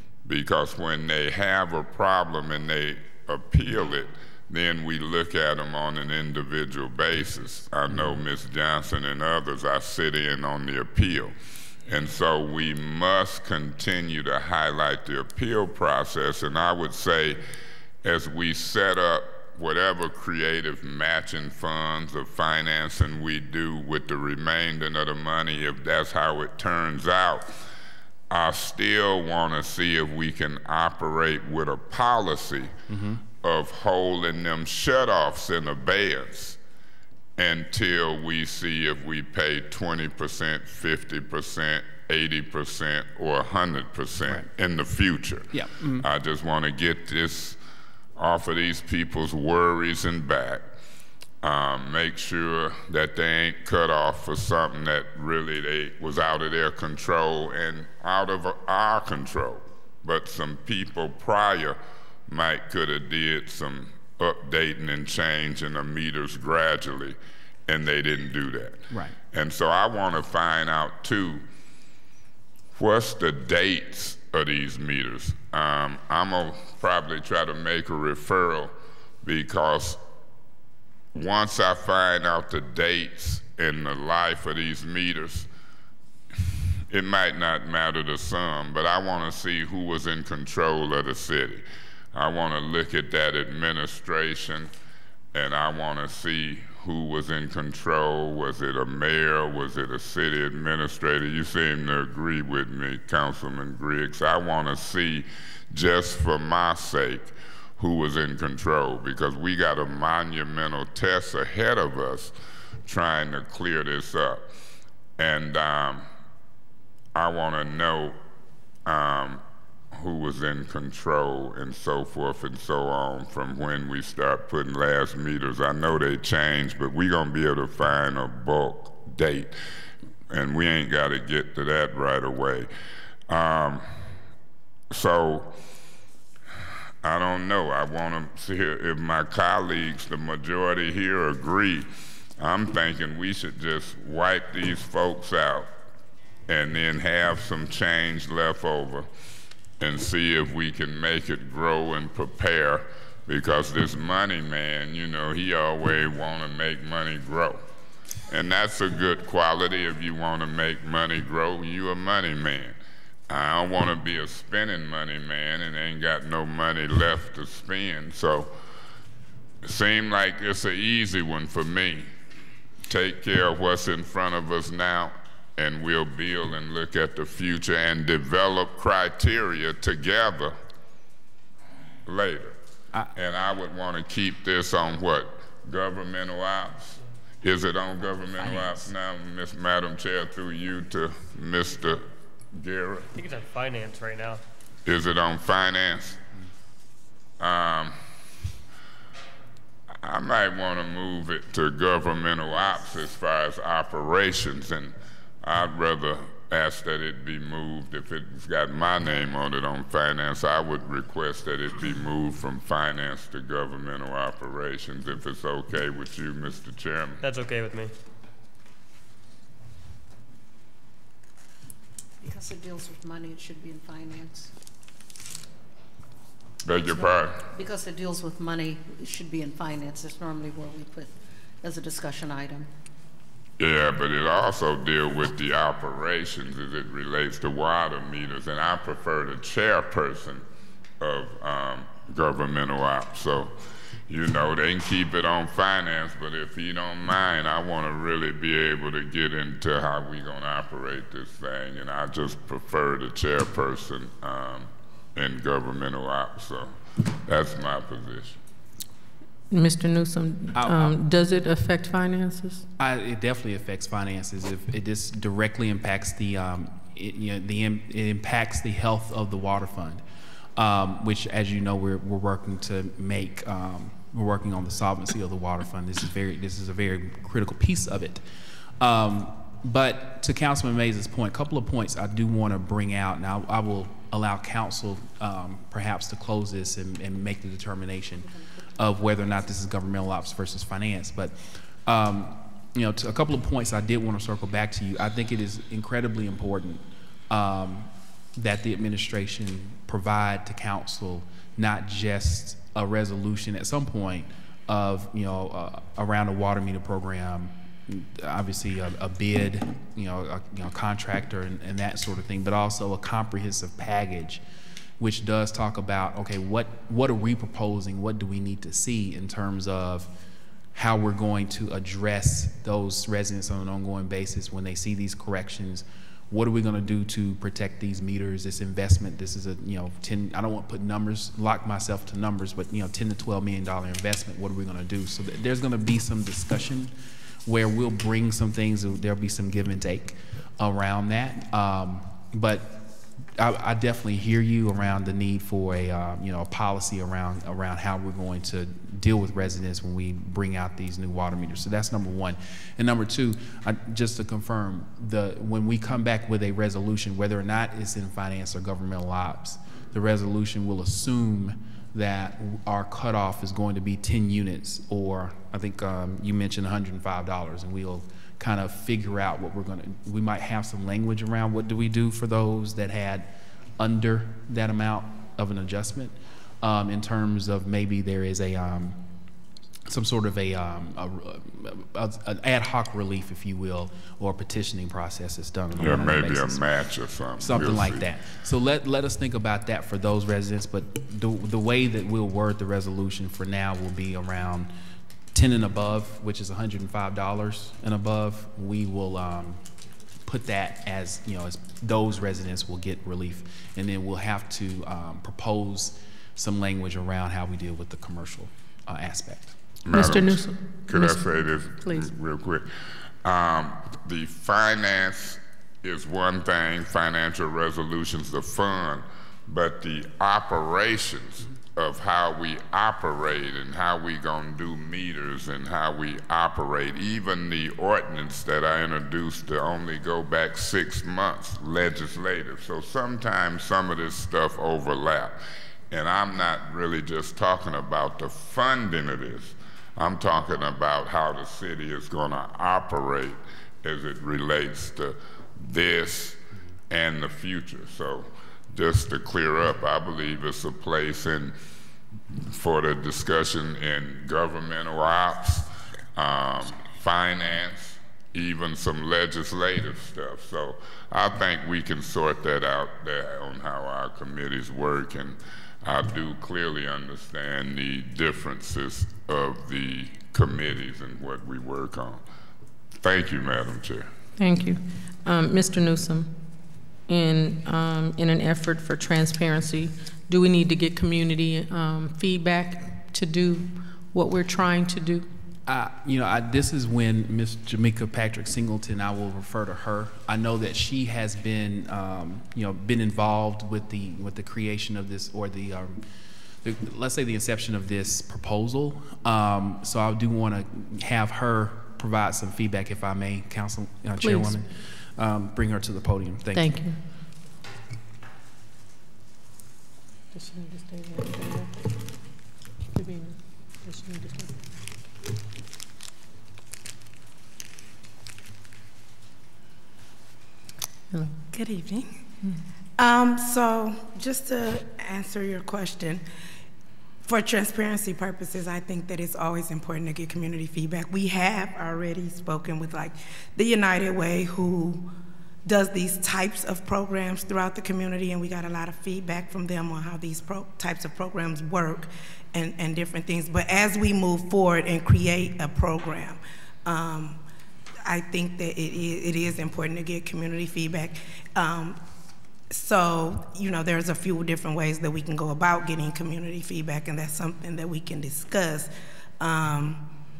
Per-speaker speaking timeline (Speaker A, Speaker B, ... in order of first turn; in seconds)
Speaker A: 0.3-11.3, 11.9-17.4, 18.0-27.5, 28.3-32.7, 33.4-36.6, 37.4-47.6, 48.2-50.6, 51.4-71.4, 72.8-78.7, 79.2-80.0, 81.1-85.5, 86.9-94.7, 95.3-112.3, 112.9-114.4, 115.2-116.1, 117.2-118.2, 118.9-119.4, 119.9-129.5, 130.3-132.7, 133.3-133.8, 134.9-135.5, 137.0-141.9, 142.4-145.7, 146.5-149.1, 149.8-157.6, 158.3-162.8, 163.3-168.5, 169.6-172.1, 172.9-180.6, 182.1-182.6, 183.1-193.1, 194.9-196.2, 197.4-198.0, 200.0-217.2, 226.7-227.4, 233.6-240.4, 241.0-243.5, 244.1-256.7, 257.3-258.4, 385.8-388.1, 409.9-412.7, 413.2-435.4, 435.9-446.4, 446.9-451.6, 452.4-472.2, 473.0-474.1
Speaker B: 7.9-8.2, 32.9-33.2, 45.5-46.1, 68.9-69.2, 188.4-188.9, 260.6-261.0, 262.8-270.0, 270.6-278.2, 278.8-314.4, 315.0-320.1, 320.7-336.9, 337.4-379.0, 379.9-386.6, 387.4-394.7, 395.3-399.6, 400.2-409.6, 485.7-496.0, 496.6-506.8
Speaker C: 193.2-194.4, 217.2-217.9
Speaker D: 222.2-224.5, 227.5-232.7
Speaker E: 259.5-262.7, 409.9-411.3, 411.8-412.1, 474.4-476.4, 477.1-485.3, 504.2-504.6, 506.5-507.0, 510.3-511.7, 513.0-514.5, 521.1-521.4
Speaker F: 521.5-522.1, 523.0-526.2, 527.2-535.1, 535.7-547.4, 548.0-552.0, 552.7-560.0